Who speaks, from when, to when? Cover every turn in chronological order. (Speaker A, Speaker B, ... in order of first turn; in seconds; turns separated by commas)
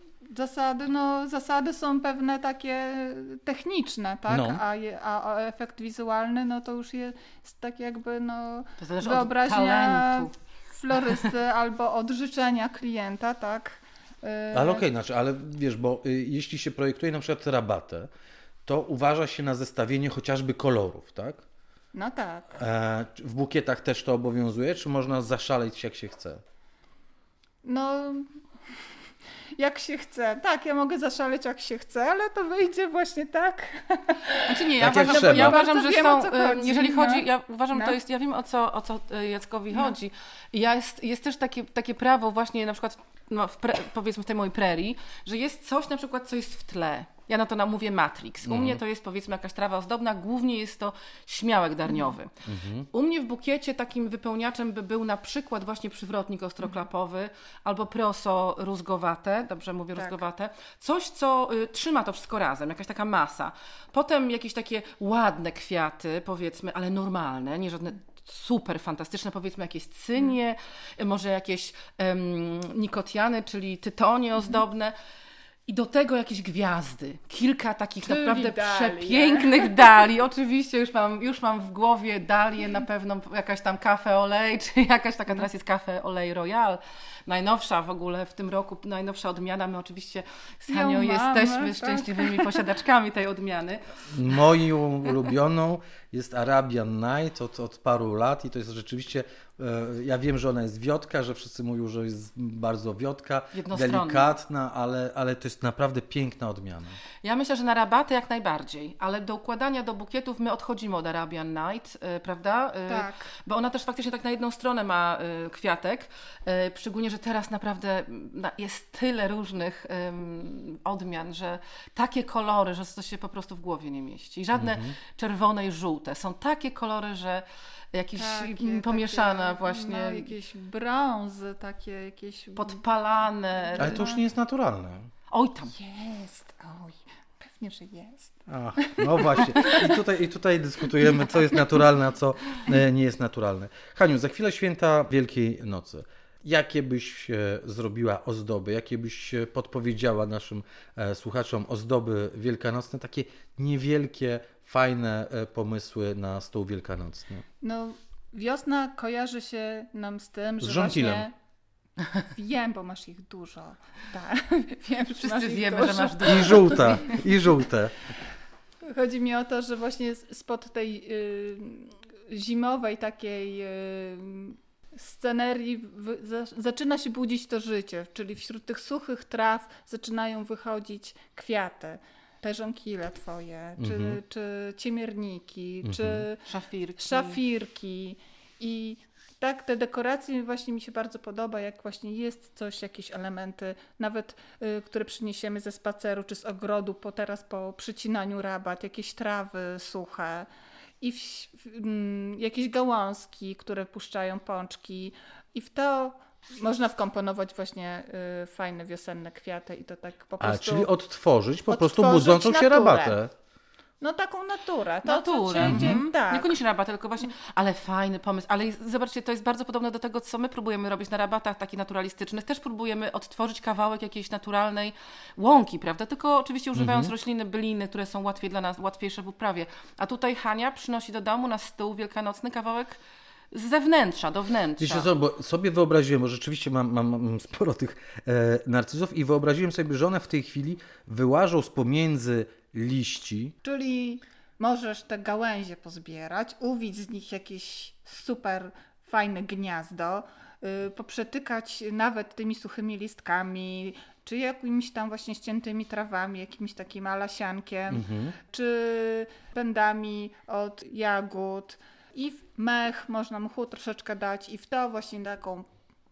Speaker A: 0.3-14.8, Speaker B: 4.3-4.6, Speaker C: 8.8-10.3, Speaker B: 14.5-18.1, Speaker B: 18.6-21.4, Speaker A: 21.9-22.6, Speaker B: 22.6-26.4, Speaker A: 27.6-28.4, Speaker A: 29.6-38.0, Speaker C: 34.4-74.9, Speaker B: 34.8-35.6, Speaker A: 39.7-40.0, Speaker B: 48.5-48.8, Speaker B: 52.5-52.9, Speaker C: 75.7-94.1, Speaker A: 78.0-79.9, Speaker A: 90.7-92.7, Speaker B: 94.1-107.0, Speaker C: 103.5-104.3, Speaker C: 107.2-130.3, Speaker A: 112.9-113.3, Speaker B: 124.6-124.9, Speaker A: 128.2-134.2, Speaker C: 132.6-134.2, Speaker B: 133.8-135.1, Speaker C: 135.3-135.8, Speaker A: 135.8-140.0, Speaker B: 138.5-157.4, Speaker A: 157.6-161.3, Speaker B: 160.6-161.2, Speaker A: 162.3-167.2, Speaker C: 165.2-167.2, Speaker B: 166.2-167.9, Speaker A: 168.8-186.4, Speaker B: 183.8-184.2, Speaker B: 185.8-186.2, Speaker C: 186.5-187.4, Speaker A: 187.0-200.5, Speaker A: 201.0-210.9, Speaker B: 210.4-213.3, Speaker A: 211.7-213.2, Speaker A: 214.0-216.6, Speaker C: 215.0-233.0, Speaker B: 215.6-216.0, Speaker B: 226.8-227.1, Speaker C: 233.5-235.1, Speaker B: 234.8-243.5, Speaker A: 243.6-265.7, Speaker B: 257.9-258.4